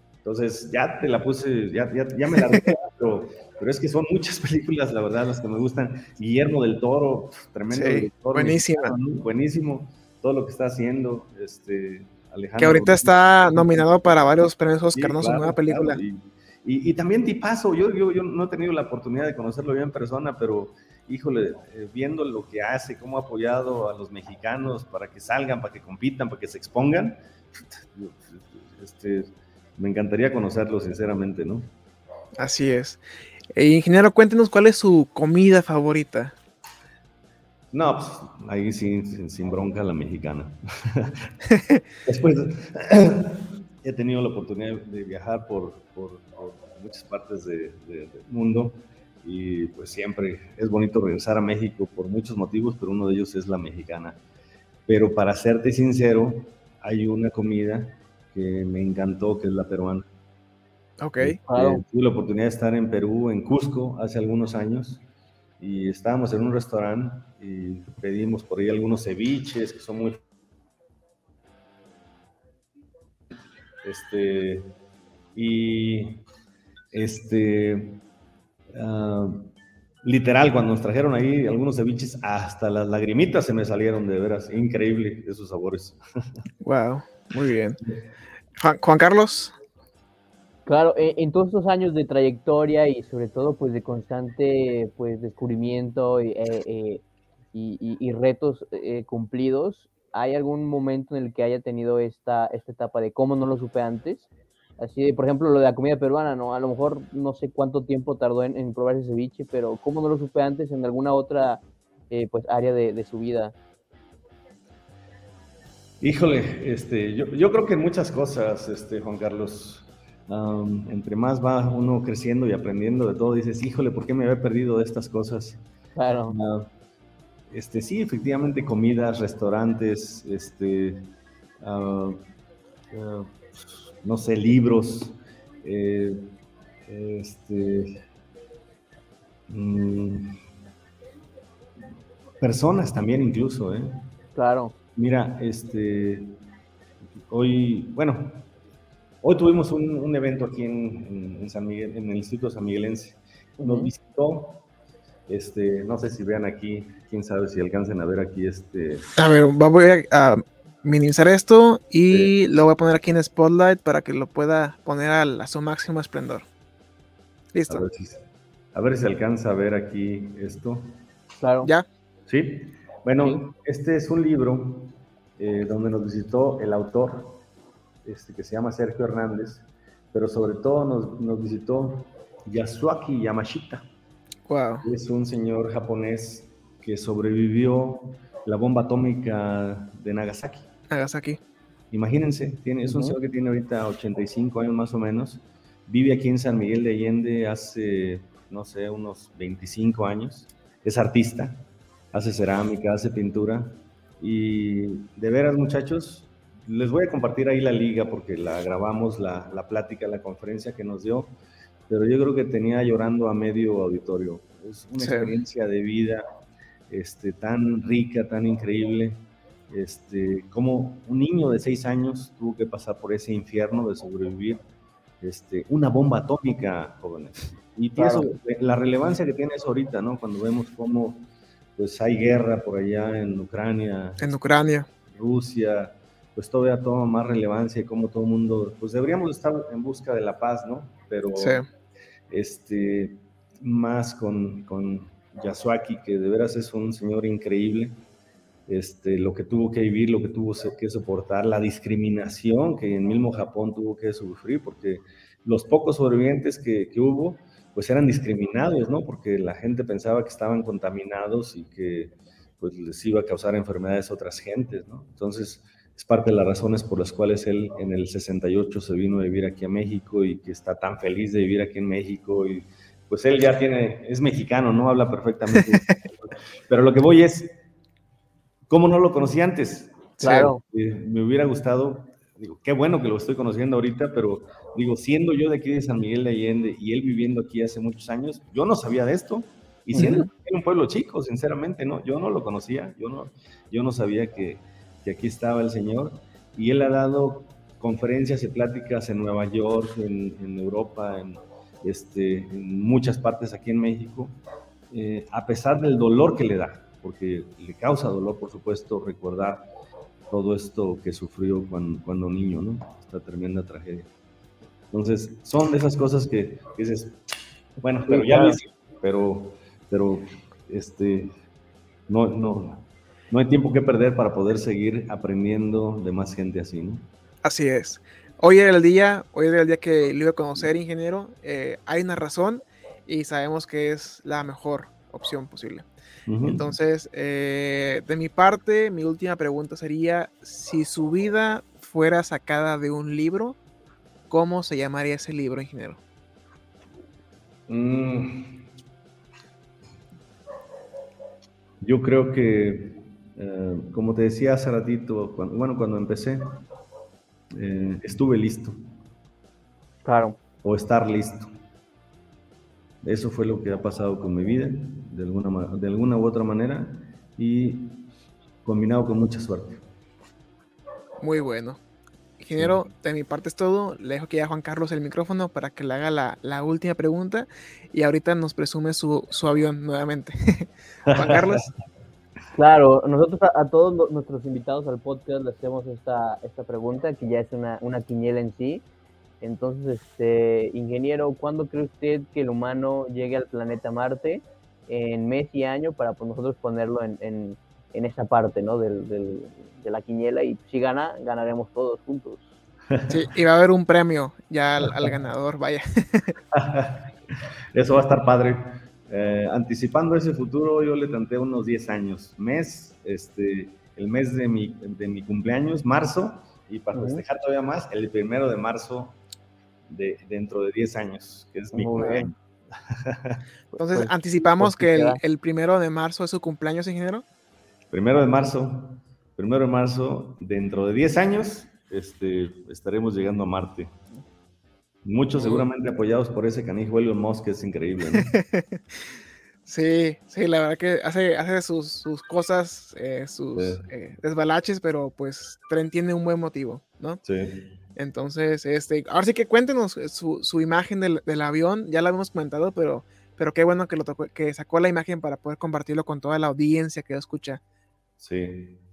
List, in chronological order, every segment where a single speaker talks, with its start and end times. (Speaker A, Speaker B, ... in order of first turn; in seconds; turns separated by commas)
Speaker A: 0.2-14.2, Speaker B: 7.7-8.9, Speaker B: 12.6-16.0, Speaker A: 14.9-27.2, Speaker A: 27.8-31.7, Speaker B: 32.4-33.0, Speaker B: 33.5-36.3, Speaker A: 37.7-41.3, Speaker B: 41.5-41.8, Speaker A: 42.0-54.2, Speaker A: 54.9-60.0, Speaker B: 61.0-61.4, Speaker A: 61.2-65.0, Speaker C: 61.5-61.8, Speaker A: 65.6-70.2, Speaker A: 73.8-74.7, Speaker A: 75.3-76.2, Speaker A: 76.9-78.0, Speaker A: 78.7-79.5, Speaker A: 80.0-86.0, Speaker B: 86.6-87.8, Speaker B: 88.6-89.5, Speaker C: 90.7-97.0, Speaker C: 97.5-113.5, Speaker A: 116.0-125.6, Speaker C: 126.0-126.4, Speaker A: 126.3-126.7, Speaker A: 127.5-131.1, Speaker A: 131.6-132.2, Speaker A: 132.9-136.3, Speaker A: 136.8-137.9, Speaker A: 139.5-140.4, Speaker A: 142.4-144.0, Speaker C: 144.3-144.8, Speaker A: 144.9-146.4, Speaker A: 147.3-148.5, Speaker A: 149.2-154.7, Speaker C: 153.6-153.9, Speaker A: 155.3-159.1, Speaker B: 159.2-166.4, Speaker B: 167.5-167.8, Speaker A: 167.7-171.0, Speaker C: 171.4-171.7, Speaker A: 172.3-177.4, Speaker A: 178.0-183.9, Speaker B: 184.5-184.9, Speaker A: 184.8-190.7, Speaker B: 190.9-191.4, Speaker A: 191.9-211.4, Speaker C: 192.9-193.2, Speaker A: 211.9-216.2, Speaker B: 215.0-215.3, Speaker A: 216.9-224.6, Speaker A: 225.2-234.3, Speaker B: 234.2-234.9, Speaker A: 235.1-241.6, Speaker B: 241.4-241.7, Speaker A: 242.3-248.0, Speaker A: 248.7-277.5, Speaker B: 275.5-276.0, Speaker A: 278.7-304.4, Speaker C: 280.2-280.5, Speaker B: 280.2-280.5, Speaker C: 289.9-290.2, Speaker A: 304.9-309.6, Speaker A: 310.3-314.1, Speaker A: 314.9-317.2, Speaker A: 317.8-321.3, Speaker C: 318.1-318.6, Speaker A: 322.1-327.1, Speaker B: 327.4-335.9, Speaker A: 336.3-336.7, Speaker B: 336.4-343.6, Speaker B: 344.3-346.0, Speaker A: 347.7-348.6, Speaker A: 351.8-356.4, Speaker A: 357.5-358.8, Speaker C: 360.0-360.4, Speaker A: 360.6-361.5, Speaker A: 363.0-368.0, Speaker A: 368.6-369.8, Speaker B: 371.2-371.8, Speaker B: 372.4-381.7, Speaker A: 381.0-381.7, Speaker C: 382.5-388.8, Speaker C: 389.4-402.4, Speaker A: 402.9-403.2, Speaker B: 403.1-406.4, Speaker A: 406.5-407.1, Speaker A: 407.7-419.2, Speaker C: 416.9-417.2, Speaker A: 419.9-422.4, Speaker C: 421.7-422.3, Speaker A: 422.9-423.4, Speaker B: 423.7-427.2, Speaker C: 424.6-425.2, Speaker A: 427.9-433.9, Speaker A: 435.0-438.3, Speaker B: 435.4-435.6, Speaker B: 438.1-438.8, Speaker B: 439.6-447.2, Speaker A: 443.6-443.8, Speaker A: 447.2-447.6, Speaker B: 447.9-457.6, Speaker A: 458.2-458.8